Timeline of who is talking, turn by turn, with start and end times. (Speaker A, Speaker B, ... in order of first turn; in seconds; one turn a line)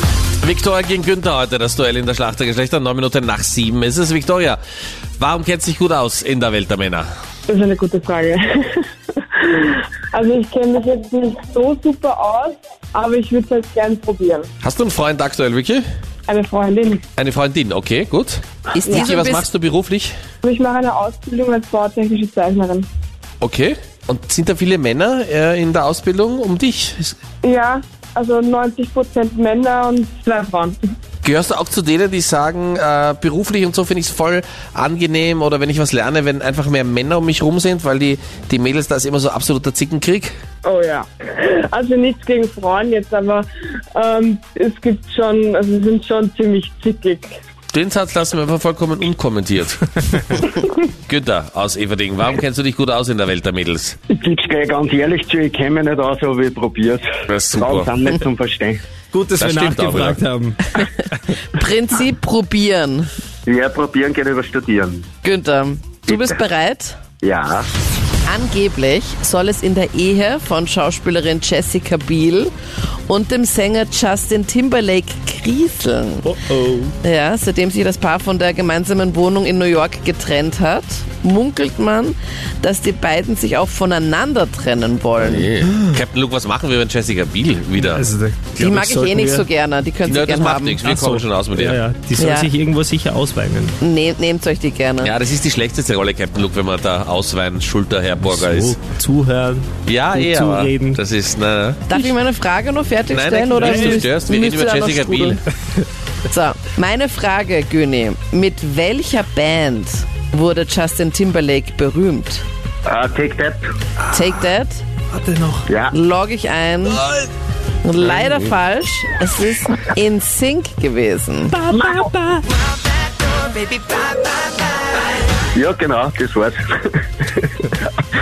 Speaker A: 0.4-4.6
Speaker A: 5.2-7.1
Speaker B: 7.5-14.5
Speaker A: 14.6-15.8
Speaker B: 16.3-17.0
Speaker A: 17.2-20.1
Speaker C: 18.7-19.5
Speaker B: 18.9-19.1
Speaker B: 20.4-22.9
Speaker A: 23.4-27.2
Speaker B: 27.4-30.8
Speaker A: 31.2-40.3
Speaker B: 40.6-47.3
Speaker A: 47.7-50.5
Speaker A: 51.1-54.0
Speaker D: 54.1-58.8
Speaker A: 57.3-57.9
Speaker E: 59.1-61.1
Speaker A: 59.4-60.2
Speaker C: 61.5-63.1
Speaker D: 63.5-65.1
Speaker C: 65.2-67.0
Speaker D: 67.2-67.7
Speaker C: 68.3-72.5
Speaker C: 73.1-76.3
Speaker E: 76.2-77.0
Speaker C: 77.0-85.5
Speaker A: 85.2-88.0
Speaker E: 85.7-86.0
Speaker E: 87.8-89.5
Speaker C: 88.6-90.8
Speaker A: 90.1-91.8
Speaker E: 90.8-93.8
Speaker C: 92.2-92.5
Speaker C: 93.8-95.1
Speaker A: 95.0-98.8
Speaker E: 98.2-101.0
Speaker A: 99.9-101.8
Speaker C: 101.9-105.4
Speaker A: 103.1-105.4
Speaker E: 103.6-104.1
Speaker C: 106.3-112.4
Speaker D: 112.9-113.7
Speaker C: 114.1-114.8
Speaker E: 115.1-115.7
Speaker D: 115.7-115.9
Speaker C: 115.9-117.0
Speaker C: 117.8-121.6
Speaker E: 121.5-122.4
Speaker D: 121.8-122.1
Speaker D: 125.5-127.8